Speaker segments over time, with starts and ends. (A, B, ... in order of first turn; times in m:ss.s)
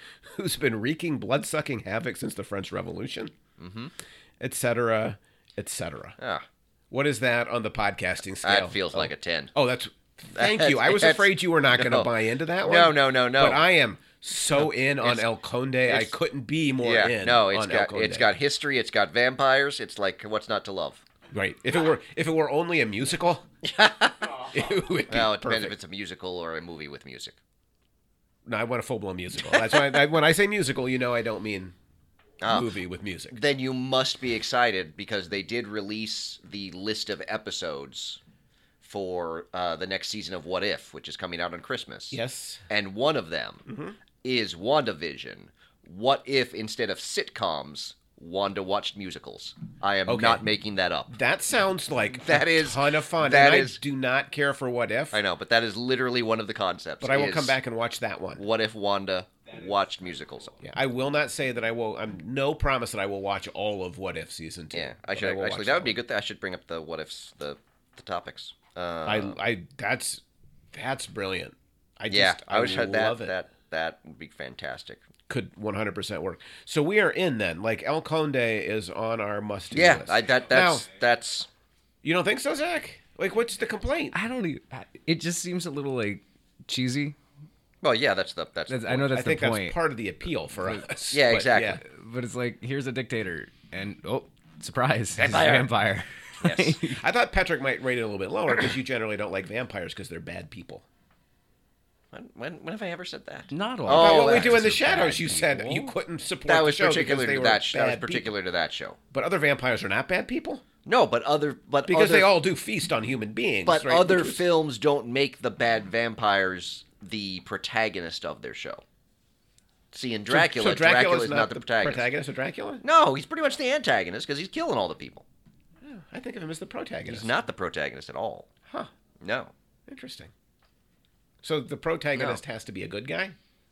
0:00.2-0:03.3 A
0:03.6-0:03.9 B
0:04.4-0:06.2 A
0:06.2-0:06.4 B
0:06.9-0:18.3 A
0:08.4-0:09.5 B
0:10.3-0:12.1 B
0:12.6-0:13.6 B
0:14.6-0:15.3 B
0:15.8-0:16.1 B
0:16.8-0:21.0 B
0:21.3-0:23.4 A
0:23.6-0:24.5 B
0:24.5-0:25.7 A
0:25.1-0:27.4 B
0:28.4-0:31.8 A
0:29.5-0:30.0 B
0:32.4-0:32.7 B
0:32.4-0:33.4 A
0:33.3-0:38.2 B
0:38.8-0:43.6 B
0:42.1-0:42.6 A
0:43.6-0:44.0 A
0:44.2-0:51.1 B
0:50.1-0:50.4 A
0:51.1-0:55.2 A
0:52.2-0:53.8 B
0:55.1-0:57.6 B
0:57.0-0:58.4 A
0:58.4-1:00.5 B
1:00.6-1:06.0 A
1:04.7-1:09.4 B
1:09.0-1:10.2 A
1:10.7-1:13.3 A
1:12.1-1:15.0 B
1:15.3-1:20.8 A
1:19.7-1:21.5 B
1:22.0-1:24.1 A
1:24.1-1:27.2 C
1:27.8-1:29.1 B
1:28.7-1:29.8 C
1:29.1-1:31.8 A
1:31.1-1:31.8 B
1:31.8-1:37.0 C
1:35.2-1:35.7 A
1:36.4-1:36.8 B
1:36.8-1:40.8 A
1:42.1-1:44.7 B
1:43.5-1:45.9 C
1:43.9-1:48.3 A
1:46.5-1:49.0 B
1:49.1-1:50.6 A
1:50.8-1:52.3 B
1:51.9-1:54.5 A
1:53.6-1:58.8 B
1:59.9-2:02.1 B
2:00.3-2:02.8 A
2:02.8-2:05.2 B
2:05.8-2:07.3 A
2:07.1-2:08.5 B
2:09.2-2:09.5 B
2:09.9-2:10.3 A
2:11.4-2:13.4 A
2:12.1-2:12.4 B